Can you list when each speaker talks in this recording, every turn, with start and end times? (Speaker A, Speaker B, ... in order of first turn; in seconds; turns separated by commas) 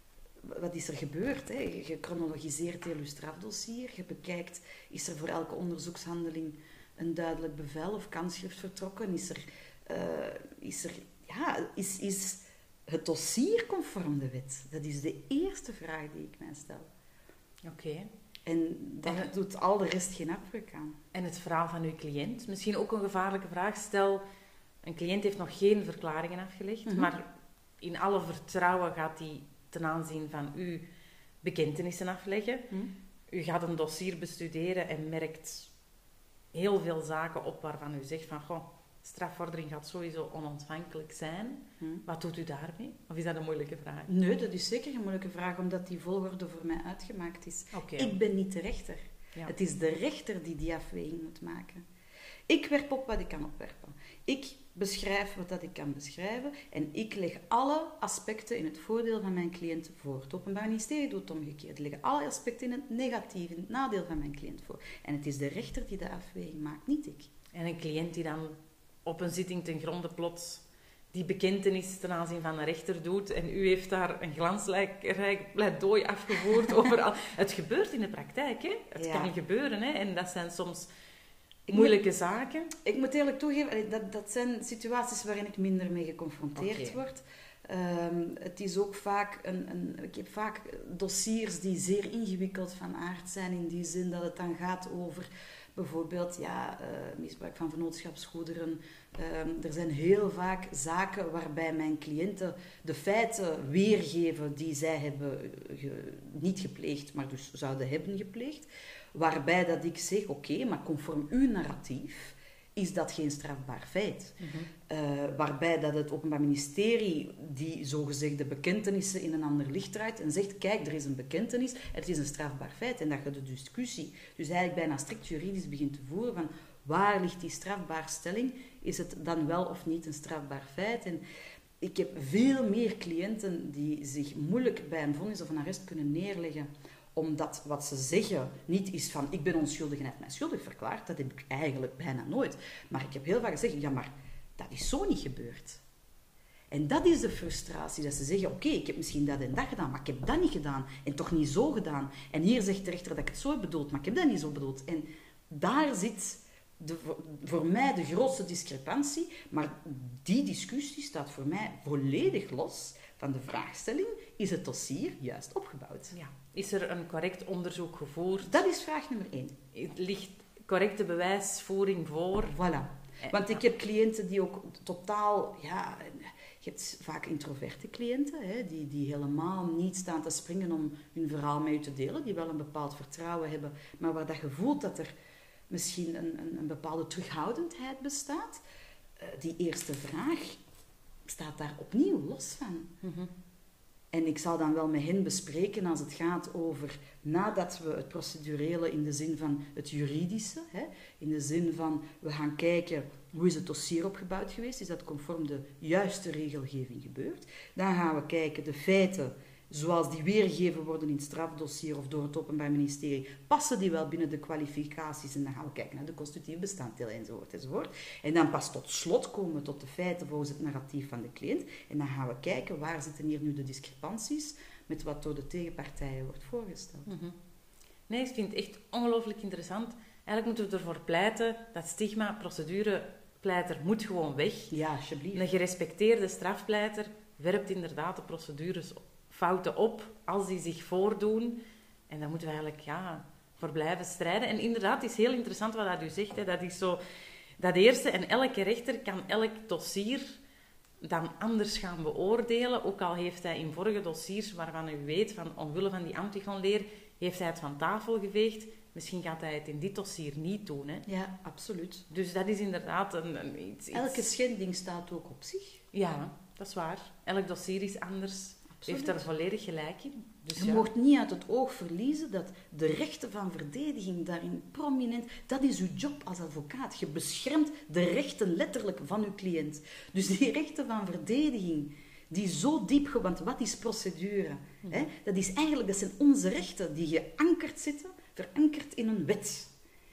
Speaker A: 0.4-16.9, Speaker B: 17.6-18.1, Speaker A: 18.5-21.0, Speaker B: 21.1-24.2, Speaker B: 24.8-27.3, Speaker A: 26.9-27.1, Speaker B: 27.8-30.9, Speaker B: 31.4-32.7, Speaker B: 33.3-35.7, Speaker B: 36.5-44.1, Speaker A: 44.1-51.8, Speaker B: 47.7-48.1, Speaker A: 52.5-67.3, Speaker B: 67.5-80.9, Speaker A: 79.0-79.3, Speaker A: 81.7-82.0, Speaker B: 81.7-82.7, Speaker A: 82.8-114.4, Speaker B: 86.6-87.0, Speaker B: 114.4-114.7, Speaker A: 114.9-131.2, Speaker A: 131.8-145.8, Speaker A: 146.7-166.1, Speaker B: 166.1-168.6, Speaker A: 168.5-169.6, Speaker B: 169.7-172.6, Speaker A: 172.5-185.1, Speaker B: 173.2-173.6, Speaker A: 185.7-188.6, Speaker A: 189.2-190.6, Speaker A: 191.3-192.9, Speaker B: 193.0-193.3, Speaker A: 194.1-227.1, Speaker B: 227.1-227.4, Speaker B: 228.1-234.7, Speaker A: 234.7-235.5, Speaker B: 235.3-247.0, Speaker B: 247.6-250.4, Speaker B: 251.0-261.1, Speaker A: 261.1-262.1, Speaker B: 262.1-264.3, Speaker A: 263.9-265.8, Speaker B: 265.9-270.9, Speaker A: 268.8-269.3, Speaker A: 270.6-289.7